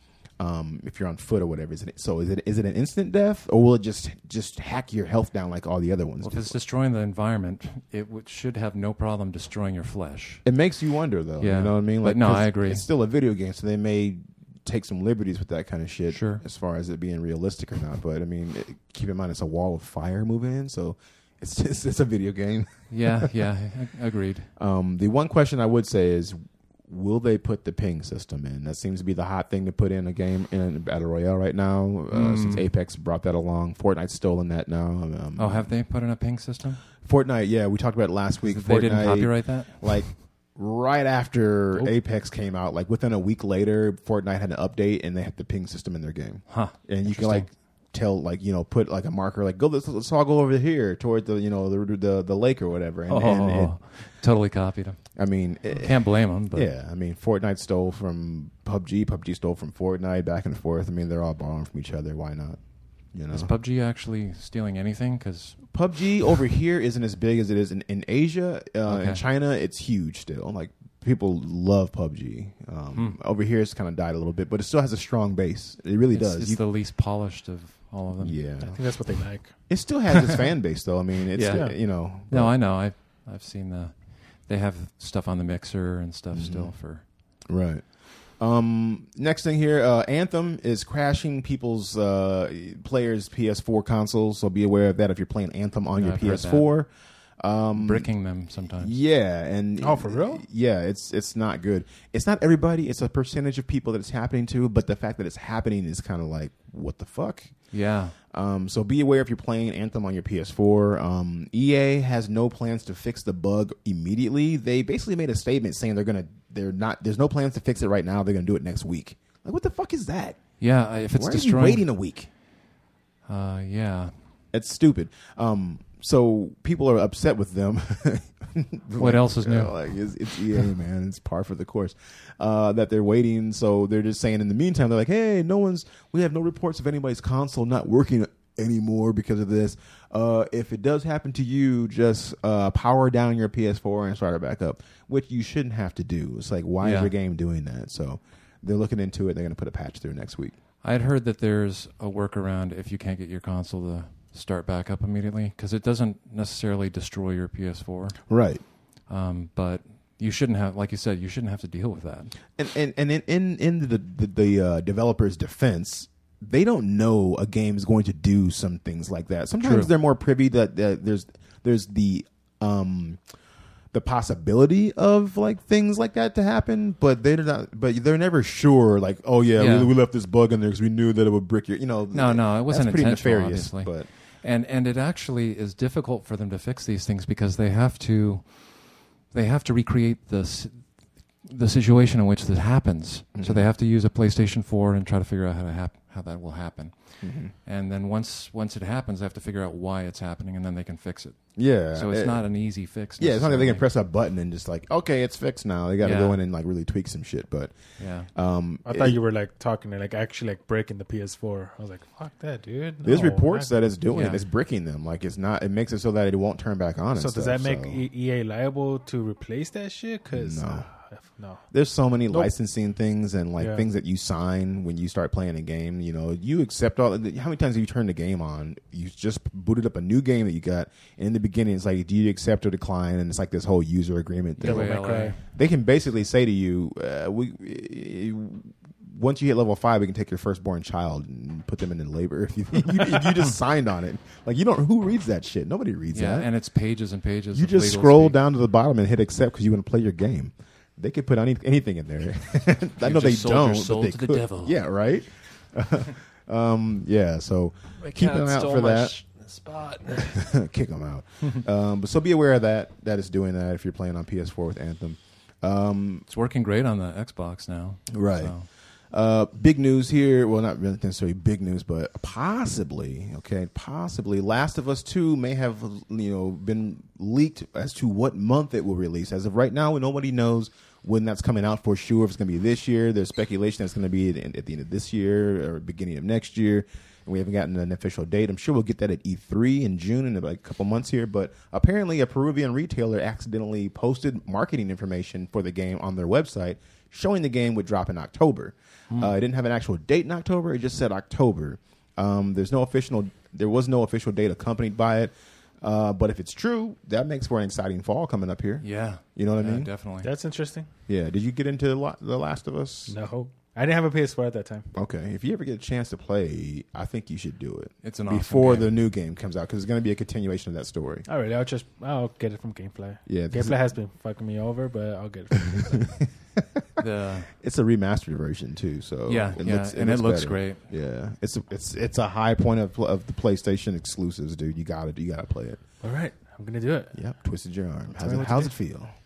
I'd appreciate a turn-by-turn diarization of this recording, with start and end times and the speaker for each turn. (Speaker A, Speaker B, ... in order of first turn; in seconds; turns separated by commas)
Speaker A: 0.4-6.5, Speaker B: 6.2-10.4, Speaker A: 10.4-23.3, Speaker B: 11.4-12.8, Speaker B: 16.1-16.4, Speaker B: 22.9-24.5, Speaker A: 24.6-35.7, Speaker B: 32.1-32.7, Speaker B: 35.4-36.8, Speaker A: 37.0-53.7, Speaker B: 38.5-40.0, Speaker B: 46.5-47.5, Speaker B: 53.1-55.0, Speaker A: 55.1-56.0, Speaker B: 55.7-56.7, Speaker A: 56.5-62.6, Speaker A: 63.1-63.5, Speaker B: 63.3-65.6, Speaker A: 65.7-76.6, Speaker B: 68.8-69.2, Speaker B: 72.9-73.2, Speaker B: 76.1-78.4, Speaker A: 78.2-78.8, Speaker C: 78.6-79.5, Speaker A: 79.7-82.5, Speaker B: 81.3-87.0, Speaker C: 81.5-81.7, Speaker A: 86.3-86.7, Speaker A: 87.5-87.8, Speaker A: 88.4-98.1, Speaker B: 96.0-96.7, Speaker B: 97.7-98.9, Speaker A: 98.8-107.5, Speaker C: 99.8-100.4, Speaker B: 107.7-108.2, Speaker A: 108.3-120.4, Speaker B: 120.6-121.8, Speaker A: 121.1-122.3, Speaker B: 123.3-124.1, Speaker A: 124.5-150.5, Speaker B: 129.0-129.9, Speaker B: 146.8-147.1, Speaker B: 150.8-158.2, Speaker A: 158.3-158.6, Speaker B: 159.1-162.3, Speaker A: 162.6-173.2, Speaker B: 169.6-169.9, Speaker A: 173.9-184.1, Speaker B: 179.6-179.9, Speaker B: 182.1-190.9, Speaker B: 191.4-203.8, Speaker A: 193.3-193.6, Speaker A: 197.2-197.5, Speaker A: 201.6-202.4, Speaker A: 203.2-207.7, Speaker B: 206.0-206.4, Speaker B: 208.0-208.3, Speaker A: 208.3-209.2, Speaker C: 208.8-213.8, Speaker A: 213.0-218.0, Speaker B: 214.1-214.4, Speaker C: 217.1-221.6, Speaker A: 220.3-220.9, Speaker A: 221.7-246.5, Speaker C: 223.6-223.8, Speaker B: 234.6-235.4, Speaker C: 234.6-235.4, Speaker B: 246.1-248.4, Speaker A: 247.5-259.1, Speaker B: 253.0-254.8, Speaker D: 258.0-260.4, Speaker A: 260.1-266.2, Speaker B: 266.3-268.7, Speaker A: 268.1-268.5, Speaker A: 269.1-309.9, Speaker B: 308.8-310.3, Speaker C: 310.2-310.9, Speaker A: 311.1-313.1, Speaker C: 313.1-314.9, Speaker A: 314.9-321.2, Speaker B: 318.0-318.9, Speaker C: 321.3-326.1, Speaker A: 323.3-323.8, Speaker A: 325.6-326.8, Speaker B: 327.0-327.5, Speaker A: 327.5-335.8, Speaker B: 329.3-330.9, Speaker C: 336.0-337.1, Speaker A: 337.1-339.1, Speaker C: 338.1-338.7